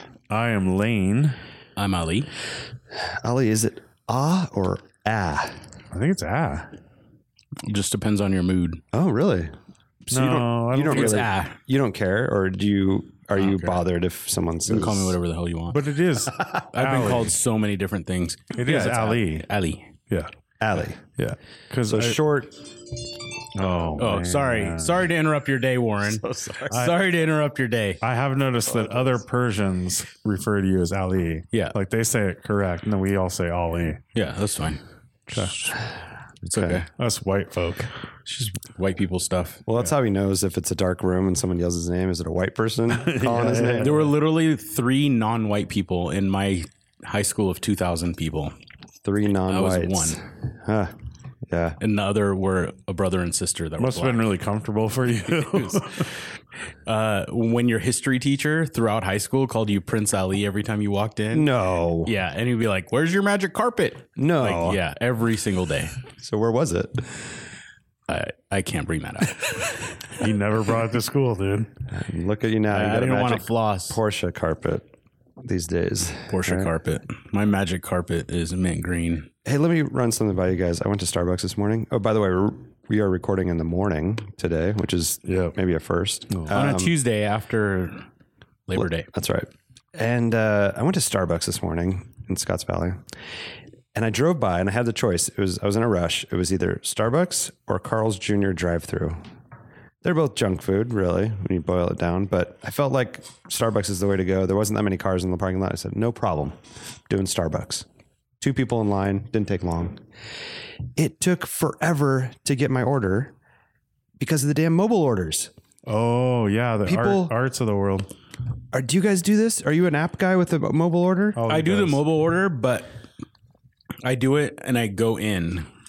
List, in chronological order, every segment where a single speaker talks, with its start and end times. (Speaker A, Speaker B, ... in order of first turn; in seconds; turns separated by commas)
Speaker A: 0.3-1.4, Speaker B: 1.8-2.3, Speaker C: 3.0-5.6, Speaker A: 5.9-6.7, Speaker B: 7.6-8.8, Speaker C: 8.9-9.5, Speaker C: 10.1-15.2, Speaker A: 10.1-11.3, Speaker B: 10.8-11.6, Speaker B: 13.4-13.8, Speaker B: 14.7-15.8, Speaker A: 15.7-17.4, Speaker B: 16.6-19.9, Speaker A: 18.6-19.4, Speaker C: 20.6-21.0, Speaker A: 21.2-22.2, Speaker C: 21.9-22.6, Speaker A: 23.6-25.1, Speaker B: 24.0-28.0, Speaker C: 26.2-26.7, Speaker A: 26.7-27.0, Speaker A: 28.0-34.0, Speaker B: 34.1-34.8, Speaker B: 35.3-35.7, Speaker B: 36.5-36.9, Speaker C: 36.5-36.8, Speaker A: 37.0-37.9, Speaker B: 38.3-39.6, Speaker C: 39.7-44.0, Speaker A: 42.9-44.1, Speaker B: 43.8-48.5, Speaker C: 49.0-50.9, Speaker B: 49.5-50.2, Speaker C: 51.5-51.8, Speaker B: 51.8-54.2, Speaker A: 53.8-56.1, Speaker B: 55.4-55.9, Speaker B: 56.9-61.5, Speaker C: 61.3-62.1, Speaker B: 62.0-66.0, Speaker C: 64.2-64.8, Speaker C: 66.2-67.3, Speaker B: 68.1-69.9, Speaker A: 70.2-71.7, Speaker C: 71.9-74.9, Speaker B: 72.7-74.0, Speaker C: 75.4-76.7, Speaker B: 76.3-79.3, Speaker C: 79.5-86.9, Speaker A: 85.3-85.5, Speaker B: 86.5-88.0, Speaker B: 88.7-89.1, Speaker C: 88.8-93.0, Speaker C: 93.9-99.2, Speaker C: 100.0-106.6, Speaker C: 107.1-107.9, Speaker C: 108.4-110.0, Speaker C: 111.0-113.3, Speaker C: 114.2-115.5, Speaker A: 115.9-118.1, Speaker C: 116.9-117.3, Speaker C: 118.7-121.4, Speaker A: 121.4-122.0, Speaker B: 121.5-123.0, Speaker B: 124.0-125.7